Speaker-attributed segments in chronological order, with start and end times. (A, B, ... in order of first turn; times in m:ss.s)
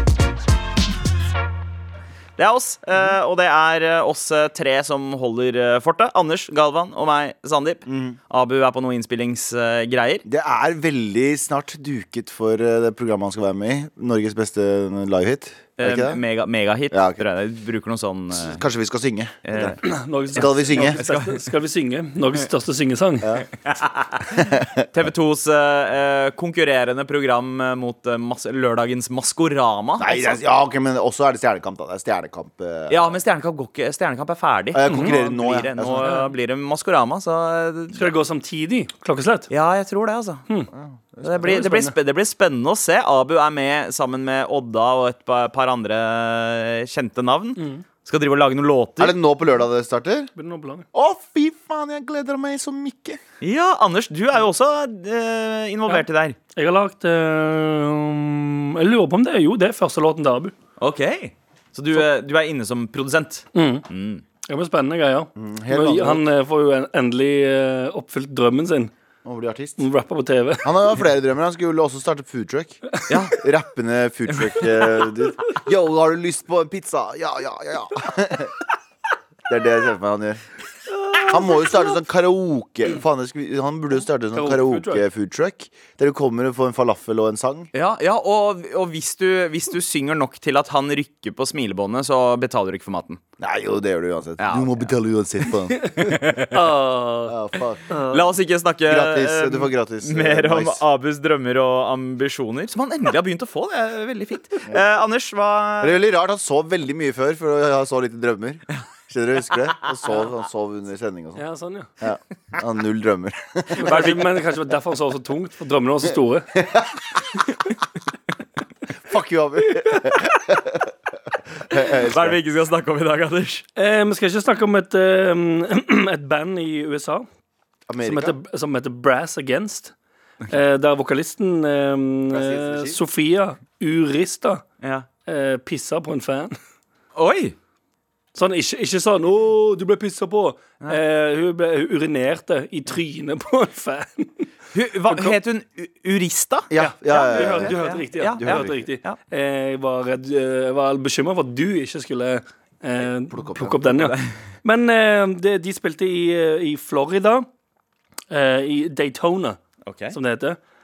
0:02.4-0:10.2 A
0:07.9-0:08.2 B
0:10.3-0:16.2 B
0:15.8-0:18.6 A
0:16.9-0:17.2 B
0:18.4-0:19.8 B
0:19.5-0:19.8 A
0:19.8-0:23.3 C
0:20.3-0:21.0 B
0:20.3-0:21.4 A
0:23.2-0:23.5 B
0:23.6-0:30.4 A
0:24.4-0:24.9 B
0:30.0-0:33.2 B
0:32.9-0:38.1 A
0:34.7-0:36.1 B
0:34.9-0:35.1 C
0:36.0-0:36.3 C
0:38.0-0:39.5 C
0:39.5-0:40.4 A
0:40.8-0:41.6 B
0:41.2-0:49.2 A
0:41.4-0:41.9 C
0:47.6-0:47.8 C
0:49.0-0:50.3 B
0:50.4-0:50.9 C
0:50.9-0:53.2 B
0:53.4-0:56.4 A
0:55.9-1:00.5 C
1:00.8-1:04.2 A
1:03.6-1:03.9 C
1:04.4-1:08.9 C
1:05.4-1:06.3 B
1:09.2-1:09.8 B
1:09.8-1:11.0 C
1:10.6-1:12.8 B
1:13.1-1:13.4 A
1:13.4-1:18.5 B
1:14.3-1:14.8 A
1:19.5-1:20.4 B
1:20.9-1:21.8 C
1:21.2-1:27.7 B
1:24.3-1:25.0 C
1:27.7-1:33.2 A
1:33.4-1:36.0 B
1:34.4-1:34.9 A
1:35.8-1:37.4 C
1:36.0-1:36.6 A
1:37.3-1:38.0 B
1:37.9-1:38.2 C
1:38.1-1:46.0 A
1:38.9-1:40.8 B
1:45.8-1:51.4 B
1:51.4-1:51.9 C
1:52.0-1:54.0 B
1:53.8-1:56.5 C
1:53.8-1:54.3 A
1:56.6-1:56.9 B
1:59.0-2:00.9 B
2:01.6-2:02.4 B
2:02.0-2:03.6 A
2:03.8-2:07.3 C
2:07.9-2:08.4 B
2:08.0-2:09.9 C
2:10.5-2:14.6 C
2:12.3-2:13.0 B
2:14.8-2:15.1 A
2:15.3-2:16.6 C
2:17.2-2:17.6 A
2:18.4-2:24.5 C
2:24.7-2:26.7 A
2:25.1-2:25.4 C
2:26.7-2:27.8 B
2:26.8-2:37.5 C
2:27.3-2:29.2 A
2:28.4-2:28.7 B
2:33.0-2:33.8 B
2:34.0-2:34.3 A
2:38.3-2:39.6 C
2:39.9-2:40.2 A
2:40.1-2:40.6 C